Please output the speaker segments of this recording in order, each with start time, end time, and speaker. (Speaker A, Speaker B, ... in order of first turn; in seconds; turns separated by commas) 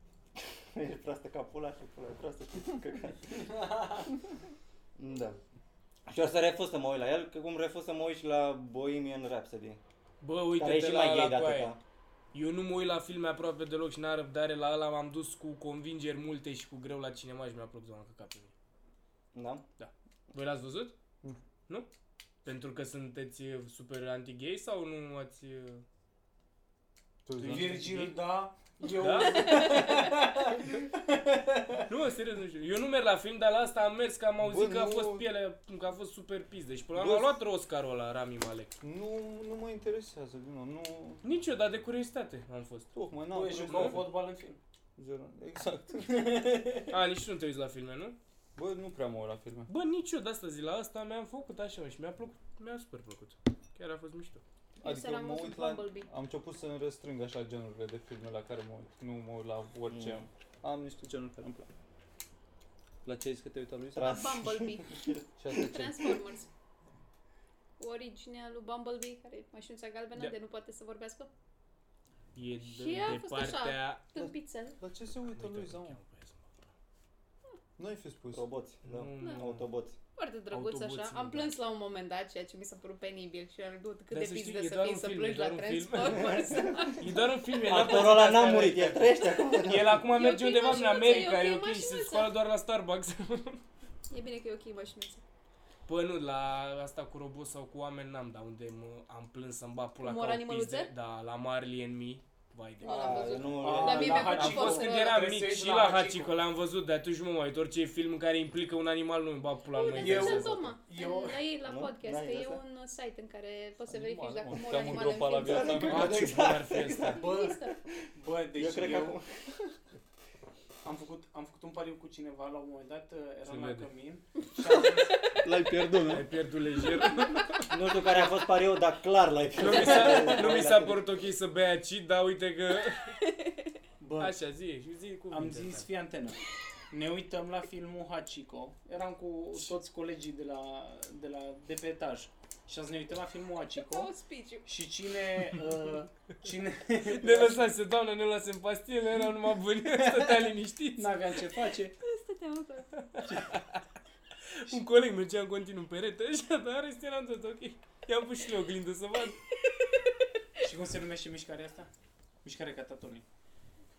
Speaker A: 0.4-3.5, Speaker B: 3.5-4.1, Speaker A: 5.0-5.4, Speaker A: 6.1-9.8, Speaker C: 10.2-11.8, Speaker A: 10.6-11.8, Speaker C: 12.3-18.5, Speaker A: 19.3-19.6, Speaker C: 19.8-21.0, Speaker C: 22.4-25.9, Speaker D: 27.3-28.2, Speaker B: 27.4-31.9, Speaker C: 29.0-30.0, Speaker E: 29.6-30.1, Speaker C: 31.9-38.8, Speaker D: 34.4-35.3, Speaker D: 37.0-37.3, Speaker D: 38.8-41.2, Speaker C: 41.2-42.9, Speaker D: 42.9-44.1, Speaker B: 43.3-44.6, Speaker C: 43.7-44.0, Speaker D: 45.0-46.4, Speaker B: 46.0-46.9, Speaker C: 46.9-48.2, Speaker D: 48.6-49.7, Speaker C: 49.7-54.4, Speaker D: 54.8-61.7, Speaker E: 54.8-56.1, Speaker A: 59.9-60.3, Speaker D: 63.0-64.2, Speaker A: 64.0-65.2, Speaker E: 64.0-65.0, Speaker D: 65.4-66.2, Speaker E: 65.5-66.5, Speaker E: 67.8-71.3, Speaker C: 72.3-74.1, Speaker E: 72.7-74.8, Speaker D: 74.8-76.0, Speaker C: 75.3-76.7, Speaker D: 77.8-78.5, Speaker A: 78.3-80.0, Speaker C: 78.8-79.6, Speaker E: 79.2-79.4, Speaker E: 80.1-87.1, Speaker C: 80.5-81.5, Speaker C: 84.1-93.6, Speaker A: 86.2-87.0, Speaker A: 87.7-90.0, Speaker E: 90.0-92.3, Speaker E: 94.1-95.2, Speaker C: 95.9-103.5, Speaker E: 100.0-100.9, Speaker E: 102.8-105.3, Speaker A: 102.8-104.7, Speaker B: 103.6-106.4, Speaker C: 104.3-110.7, Speaker E: 109.7-116.1, Speaker B: 109.9-111.5, Speaker A: 111.6-112.6, Speaker D: 113.9-116.1, Speaker A: 115.2-117.2, Speaker C: 115.8-117.2, Speaker E: 117.0-117.8, Speaker B: 117.2-119.2, Speaker A: 118.5-119.3, Speaker B: 120.8-125.3, Speaker C: 123.5-123.9, Speaker D: 125.4-126.3, Speaker C: 126.0-128.2, Speaker A: 127.7-131.0, Speaker C: 129.6-133.1, Speaker E: 133.3-133.7, Speaker B: 134.0-134.4, Speaker C: 134.2-135.9, Speaker B: 135.3-136.4, Speaker B: 136.9-144.1, Speaker E: 143.8-144.7, Speaker B: 144.7-147.7, Speaker C: 147.0-151.3, Speaker B: 149.9-151.9, Speaker E: 151.9-153.0, Speaker C: 153.0-153.7, Speaker B: 153.2-153.6, Speaker C: 154.5-159.4, Speaker E: 159.5-160.6, Speaker B: 160.6-161.9, Speaker B: 162.4-163.2